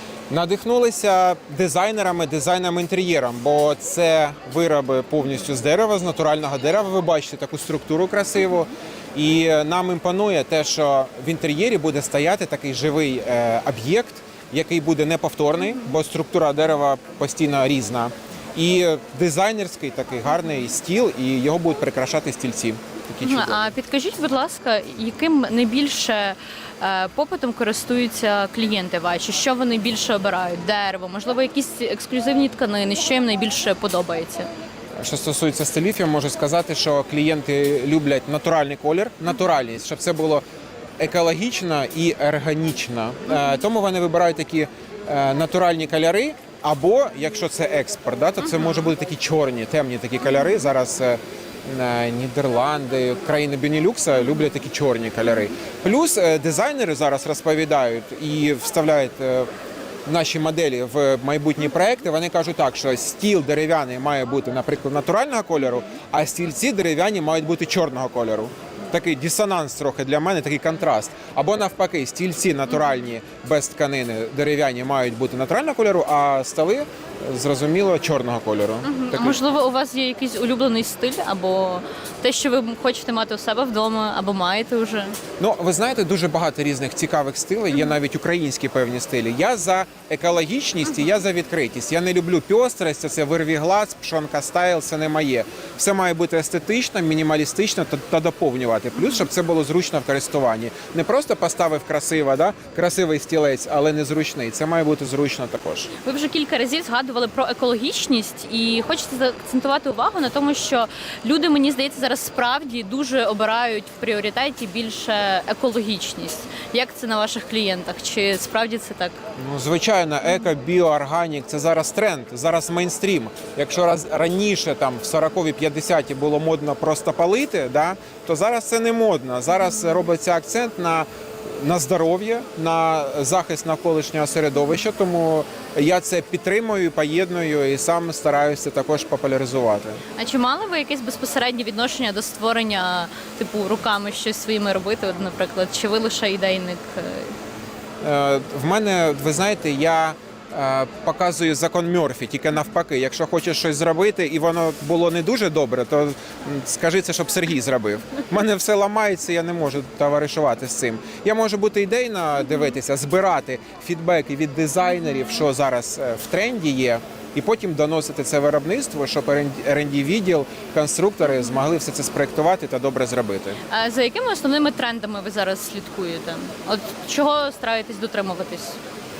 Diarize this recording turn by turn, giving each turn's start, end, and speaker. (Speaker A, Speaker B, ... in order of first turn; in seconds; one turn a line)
Speaker A: 0.3-23.6
Speaker B: 23.2-34.5
Speaker A: 35.0-40.4
Speaker A: 41.0-59.5
Speaker A: 60.0-79.4
Speaker B: 78.8-85.2
Speaker A: 85.4-105.9
Speaker B: 106.0-119.2
Speaker A: 119.4-140.0
Speaker B: 140.2-147.3
Speaker A: 148.0-173.6
Speaker B: 173.7-178.8